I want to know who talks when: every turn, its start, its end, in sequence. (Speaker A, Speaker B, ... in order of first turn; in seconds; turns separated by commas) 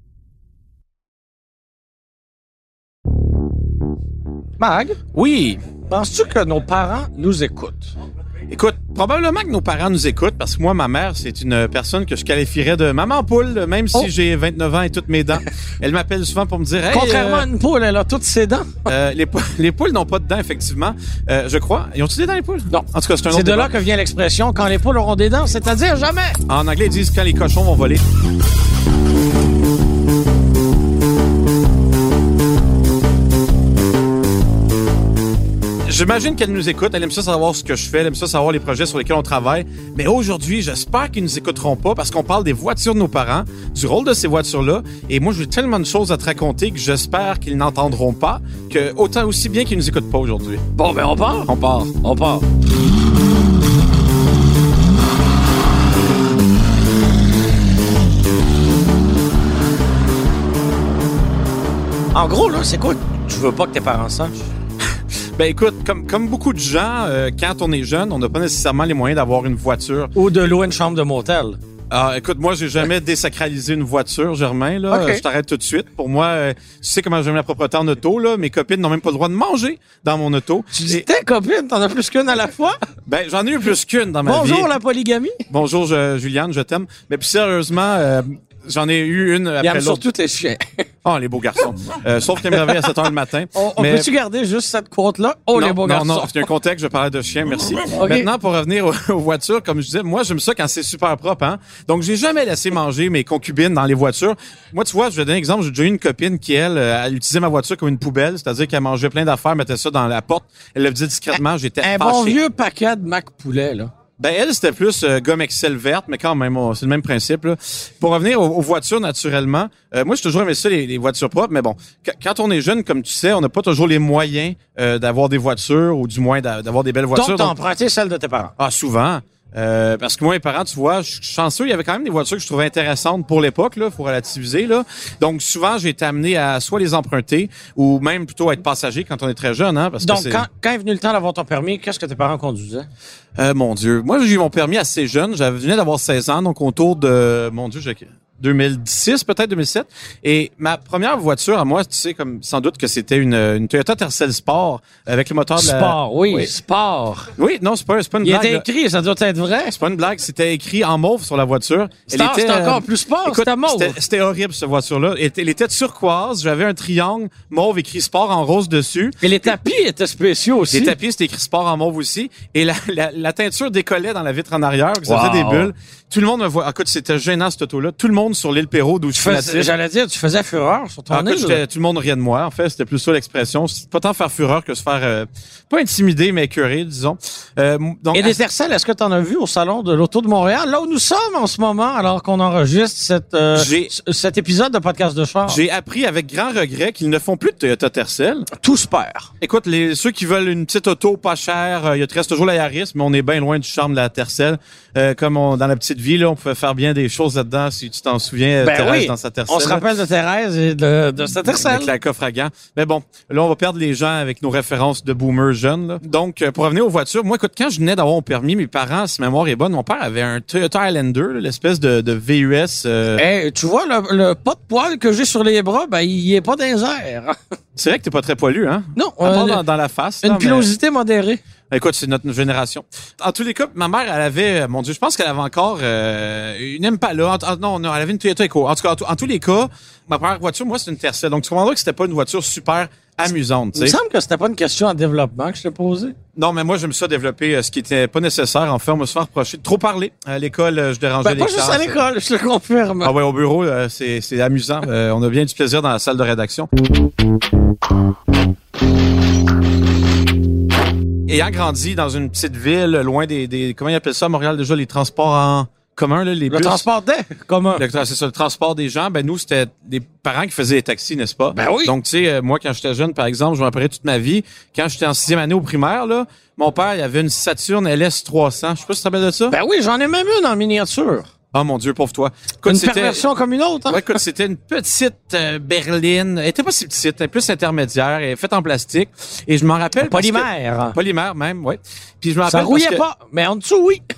Speaker A: 4.6-5.0, Speaker B: 5.1-5.6, Speaker A: 5.9-7.9, Speaker B: 8.5-17.5, Speaker A: 16.9-18.9, Speaker B: 18.9-23.7, Speaker A: 22.7-26.4, Speaker B: 26.5-28.0, Speaker B: 35.9-50.6, Speaker A: 50.8-52.4, Speaker B: 51.5-52.0, Speaker A: 62.1-64.5, Speaker B: 65.3-70.1, Speaker A: 70.1-71.6, Speaker B: 71.9-81.0, Speaker A: 74.9-75.2, Speaker A: 80.7-82.8, Speaker B: 83.1-84.7, Speaker A: 84.2-85.4, Speaker B: 85.5-90.0, Speaker A: 89.6-90.8, Speaker B: 91.0-94.1, Speaker A: 93.5-96.3, Speaker B: 95.5-112.4, Speaker A: 97.9-98.3, Speaker A: 111.8-113.9, Speaker B: 114.2-127.5, Speaker A: 127.1-128.5, Speaker B: 128.6-140.4, Speaker A: 140.0-142.9, Speaker B: 143.4-156.5, Speaker A: 155.6-157.3, Speaker B: 157.4-158.7, Speaker A: 158.2-159.8, Speaker B: 159.7-169.5, Speaker A: 162.1-164.0, Speaker A: 169.2-170.9, Speaker B: 170.7-179.7, Speaker A: 175.1-175.7, Speaker A: 179.1-181.6, Speaker B: 181.1-188.4, Speaker A: 188.1-195.6, Speaker B: 193.5-193.9, Speaker B: 195.5-198.5, Speaker A: 198.5-199.3, Speaker B: 199.4-209.9, Speaker A: 208.6-211.9, Speaker B: 211.4-223.2, Speaker A: 223.1-227.4, Speaker B: 227.8-230.7, Speaker A: 228.9-229.6, Speaker A: 230.2-231.4, Speaker B: 231.7-244.0, Speaker A: 243.8-246.2, Speaker B: 246.3-252.0, Speaker A: 251.2-253.1, Speaker B: 253.0-256.7, Speaker B: 261.3-266.8, Speaker A: 266.5-267.8, Speaker B: 267.8-279.6, Speaker A: 271.5-271.9, Speaker A: 279.5-281.3, Speaker B: 281.5-283.2, Speaker A: 282.6-284.1, Speaker B: 283.9-293.0, Speaker A: 290.0-290.9, Speaker A: 292.4-294.0